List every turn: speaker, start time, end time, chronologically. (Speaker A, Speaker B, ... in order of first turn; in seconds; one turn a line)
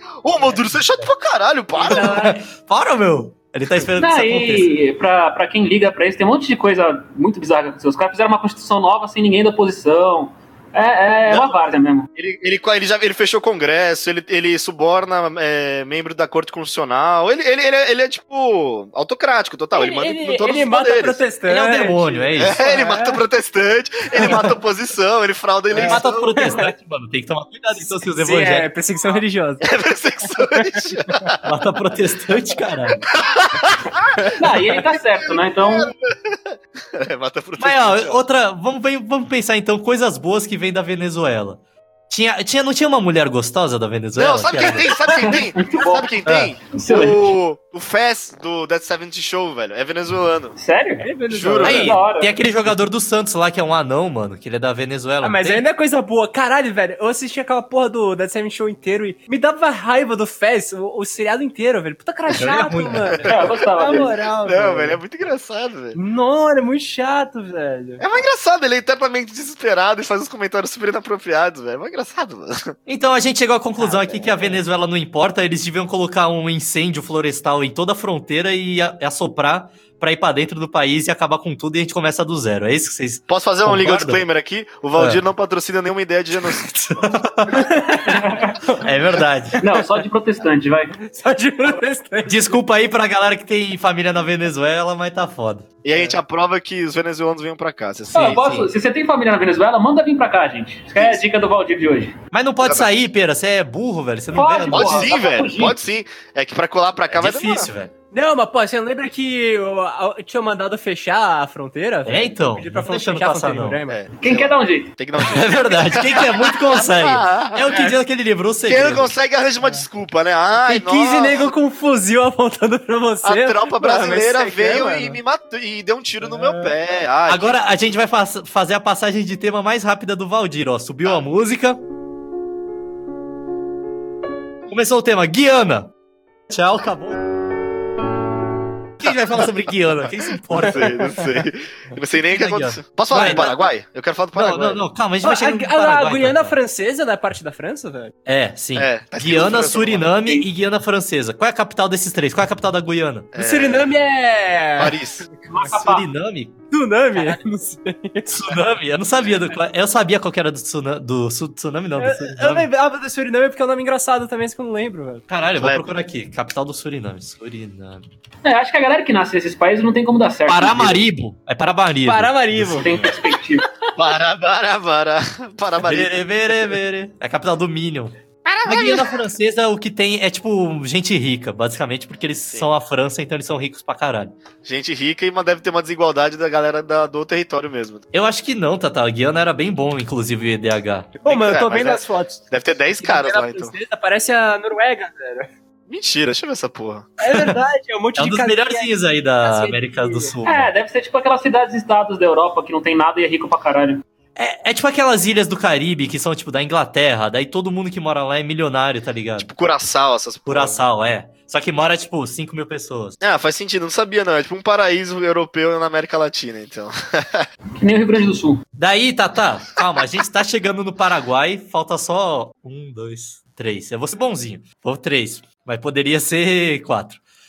Speaker A: 0.2-2.3
Speaker B: 1.8-2.4
Speaker C: 1.9-4.8
Speaker D: 4.0-12.1
Speaker A: 12.2-21.2
Speaker B: 19.7-23.2
Speaker C: 21.5-22.6
Speaker A: 22.4-26.4
Speaker B: 24.2-24.5
Speaker B: 25.7-26.7
Speaker C: 25.8-28.7
Speaker B: 27.8-29.7
Speaker A: 29.6-31.4
Speaker B: 30.4-31.3
Speaker C: 31.4-33.0
Speaker B: 33.1-33.5
Speaker A: 33.6-34.2
Speaker B: 34.2-34.8
Speaker D: 34.4-35.9
Speaker A: 34.9-38.2
Speaker C: 37.6-44.9
Speaker A: 44.1-50.6
Speaker B: 45.0-45.4
Speaker D: 45.6-46.1
Speaker C: 46.3-46.5
Speaker D: 46.7-47.4
Speaker D: 50.6-51.1
Speaker B: 51.0-52.0
Speaker A: 51.3-51.9
Speaker C: 51.6-55.6
Speaker D: 51.7-52.3
Speaker B: 55.2-65.0
Speaker C: 62.4-63.4
Speaker D: 63.3-64.1
Speaker A: 63.8-66.0
Speaker B: 65.9-68.0
Speaker A: 68.0-72.7
Speaker C: 72.9-84.2
Speaker B: 73.8-74.6
Speaker A: 83.3-86.7
Speaker C: 85.0-85.2
Speaker C: 86.4-87.7
Speaker B: 87.5-88.9
Speaker C: 88.8-89.6
Speaker D: 89.6-90.9
Speaker B: 91.0-92.6
Speaker C: 92.3-95.7
Speaker A: 95.8-98.6
Speaker D: 98.1-102.1
Speaker C: 98.2-98.7
Speaker A: 101.0-101.2
Speaker C: 102.3-105.1
Speaker A: 102.6-102.9
Speaker D: 104.3-105.8
Speaker A: 104.7-107.7
Speaker C: 107.1-107.9
Speaker B: 108.1-114.0
Speaker C: 112.1-113.8
Speaker A: 113.9-117.7
Speaker D: 114.2-114.9
Speaker C: 115.2-119.1
Speaker A: 118.7-121.5
Speaker B: 120.6-125.2
Speaker A: 123.2-127.6
Speaker B: 126.2-126.7
Speaker C: 127.3-131.8
Speaker C: 134.7-135.9
Speaker C: 136.5-137.2
Speaker C: 139.0-141.1
Speaker A: 140.6-144.8
Speaker C: 142.3-143.5
Speaker C: 144.3-146.6
Speaker B: 145.2-148.1
Speaker C: 148.3-153.3
Speaker A: 148.8-150.2
Speaker A: 153.3-153.9
Speaker B: 153.4-155.0
Speaker A: 154.8-155.3
Speaker D: 155.5-156.1
Speaker C: 155.6-156.5
Speaker B: 156.7-158.3
Speaker C: 158.3-162.7
Speaker B: 162.0-165.3
Speaker C: 165.3-168.0
Speaker A: 165.6-165.9
Speaker D: 168.4-171.0
Speaker C: 170.5-173.2
Speaker B: 172.1-172.9
Speaker D: 172.8-173.7
Speaker A: 174.0-176.2
Speaker C: 175.8-184.3
Speaker A: 178.4-179.2
Speaker A: 184.6-188.0
Speaker C: 188.1-191.2
Speaker B: 191.2-195.5
Speaker A: 191.3-193.7
Speaker A: 195.9-197.1
Speaker B: 197.2-200.3
Speaker C: 197.2-197.6
Speaker C: 198.2-200.7
Speaker D: 200.4-204.0
Speaker C: 204.4-209.5
Speaker A: 209.4-210.8
Speaker C: 210.5-213.2
Speaker A: 213.2-217.5
Speaker D: 217.8-218.6
Speaker C: 218.8-227.2